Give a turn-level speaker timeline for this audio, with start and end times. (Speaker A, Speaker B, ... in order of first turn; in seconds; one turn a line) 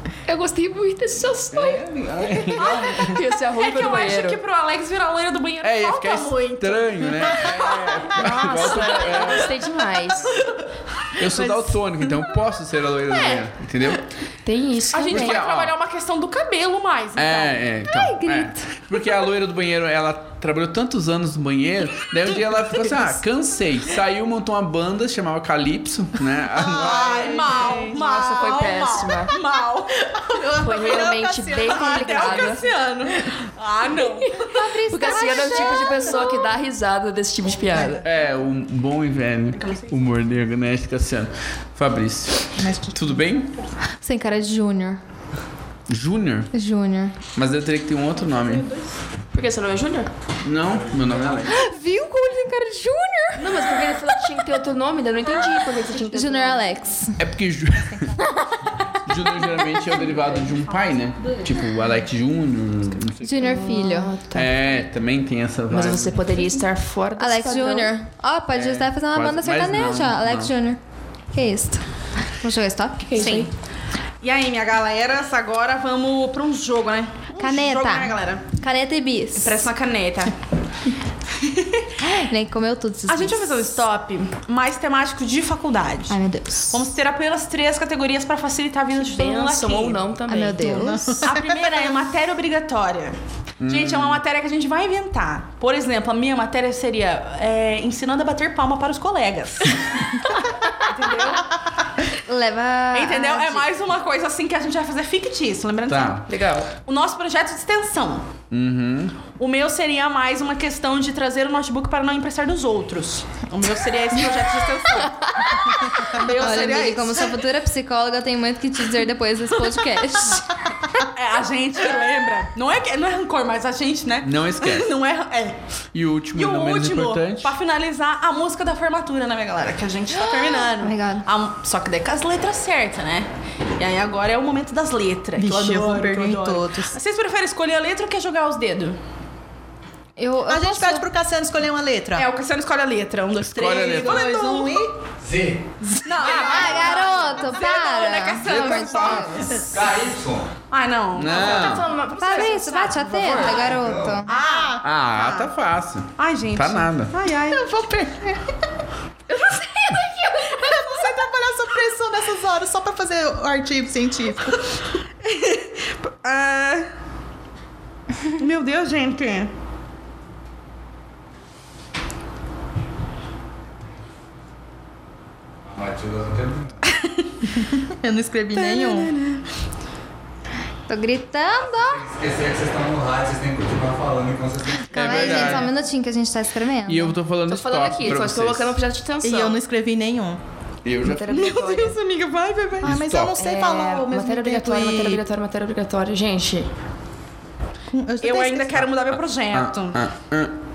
Speaker A: 0.3-1.8
Speaker B: 1.5-3.2
Speaker C: 2.3-8.1
Speaker A: 2.9-4.4
Speaker B: 5.6-9.6
Speaker A: 8.1-10.4
Speaker B: 11.2-14.0
Speaker C: 13.1-13.4
Speaker A: 14.4-15.4
Speaker C: 14.9-17.6
Speaker B: 15.1-15.7
Speaker B: 17.1-27.3
Speaker D: 17.9-18.6
Speaker E: 26.5-28.2
Speaker C: 26.7-31.1
Speaker A: 27.9-29.3
Speaker E: 30.2-33.3
Speaker A: 30.6-32.6
Speaker C: 31.6-35.5
Speaker A: 34.3-38.0
Speaker D: 34.5-36.5
Speaker E: 37.6-38.0
Speaker B: 38.0-43.5
Speaker C: 39.5-40.1
Speaker E: 42.6-43.3
Speaker D: 44.0-45.0
Speaker B: 45.9-46.5
Speaker D: 46.5-47.2
Speaker B: 47.3-48.6
Speaker C: 48.2-49.0
Speaker A: 49.3-50.1
Speaker B: 50.4-51.5
Speaker F: 50.6-51.5
Speaker D: 51.5-53.7
Speaker A: 53.4-56.7
Speaker D: 56.0-57.2
Speaker B: 57.2-58.2
Speaker B: 59.0-63.6
Speaker C: 59.7-61.5
Speaker D: 63.2-64.3
Speaker A: 63.4-64.5
Speaker B: 64.3-66.3
Speaker A: 65.7-67.9
Speaker D: 67.2-70.8
Speaker B: 68.5-70.5
Speaker D: 71.3-71.8
Speaker D: 72.4-73.5
Speaker A: 73.1-73.5
Speaker C: 73.2-73.5
Speaker C: 74.2-78.5
Speaker D: 77.4-79.7
Speaker C: 79.4-80.4
Speaker C: 81.4-81.9
Speaker D: 82.0-83.8
Speaker C: 83.1-86.2
Speaker D: 86.1-86.8
Speaker C: 86.7-90.5
Speaker A: 89.0-91.2
Speaker D: 90.5-91.0
Speaker E: 90.6-91.9
Speaker C: 91.2-93.2
Speaker B: 93.6-94.2
Speaker C: 93.7-101.5
Speaker D: 102.3-103.7
Speaker C: 102.9-106.3
Speaker B: 105.9-106.3
Speaker A: 106.3-106.7
Speaker C: 106.8-108.3
Speaker B: 108.5-109.2
Speaker C: 109.4-117.3
Speaker D: 115.5-120.6
Speaker E: 115.9-117.3
Speaker C: 121.1-125.6
Speaker B: 124.2-124.9
Speaker B: 125.9-127.5
Speaker C: 126.3-139.0
Speaker D: 130.2-131.3
Speaker E: 135.4-137.0
Speaker D: 140.2-141.1
Speaker E: 140.5-142.3
Speaker C: 142.1-144.8
Speaker B: 143.4-144.2
Speaker E: 143.6-144.9
Speaker F: 145.2-145.6
Speaker C: 146.1-149.6
Speaker E: 146.1-146.9
Speaker D: 146.2-149.6
Speaker B: 148.4-149.4
Speaker F: 149.6-150.5
Speaker C: 150.7-152.5
Speaker B: 151.1-151.9
Speaker A: 151.3-153.7
Speaker D: 152.2-154.3
Speaker C: 153.0-153.7
Speaker F: 153.7-154.2
Speaker E: 154.2-155.5
Speaker C: 154.3-154.7
Speaker B: 154.8-157.1
Speaker C: 156.2-157.7
Speaker E: 157.4-158.4
Speaker A: 159.3-161.0
Speaker E: 160.5-164.6
Speaker C: 165.2-166.9
Speaker C: 168.3-169.5
Speaker F: 175.7-176.8
Speaker C: 176.9-177.3
Speaker E: 177.5-179.1
Speaker C: 178.6-179.4
Speaker D: 180.9-182.0
Speaker F: 181.7-185.6
Speaker D: 184.9-187.2
Speaker B: 184.9-185.7
Speaker B: 186.9-188.8
Speaker A: 187.5-189.6
Speaker E: 189.2-190.4
Speaker B: 190.8-191.3
Speaker A: 191.0-192.0
Speaker C: 191.3-193.0
Speaker E: 192.8-195.2
Speaker B: 192.8-193.4
Speaker A: 193.3-196.7
Speaker E: 197.9-198.9
Speaker C: 198.2-200.1
Speaker B: 198.9-200.6